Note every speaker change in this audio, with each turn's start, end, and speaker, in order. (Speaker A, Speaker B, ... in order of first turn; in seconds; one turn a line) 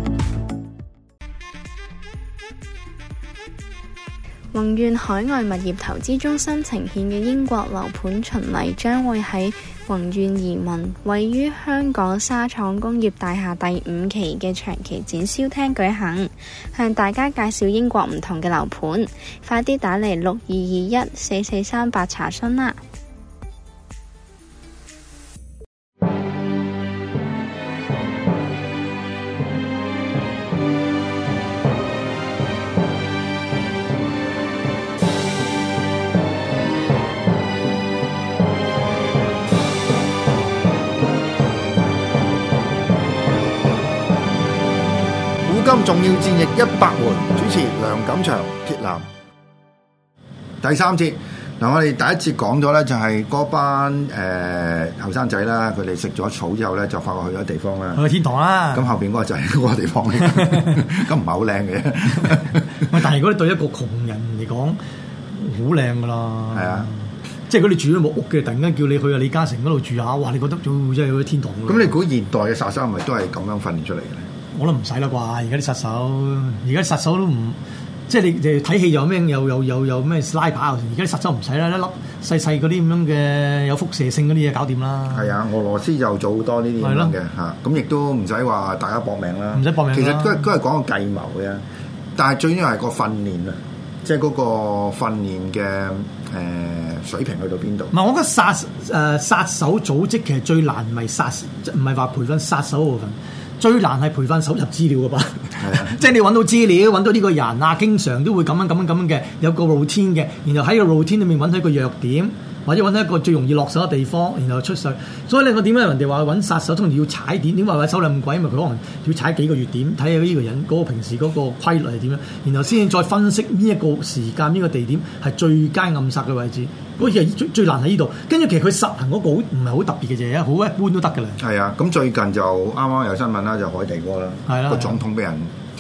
Speaker A: 4.5-22.8
Speaker B: 45.5-49.0
Speaker B: 50.6-58.0
Speaker C: 58.0-58.9
Speaker B: 58.7-63.0
Speaker C: 60.4-60.7
Speaker C: 62.8-64.8
Speaker C: 65.3-71.9
Speaker B: 66.5-66.9
Speaker B: 71.7-74.3
Speaker C: 74.5-77.6
Speaker C: 78.1-85.3
Speaker B: 85.1-91.6
Speaker C: 86.8-87.2
Speaker C: 89.5-90.4
Speaker B: 92.2-97.9
Speaker C: 97.9-131.4
Speaker B: 105.6-106.0
Speaker B: 131.4-135.5
Speaker C: 134.5-135.0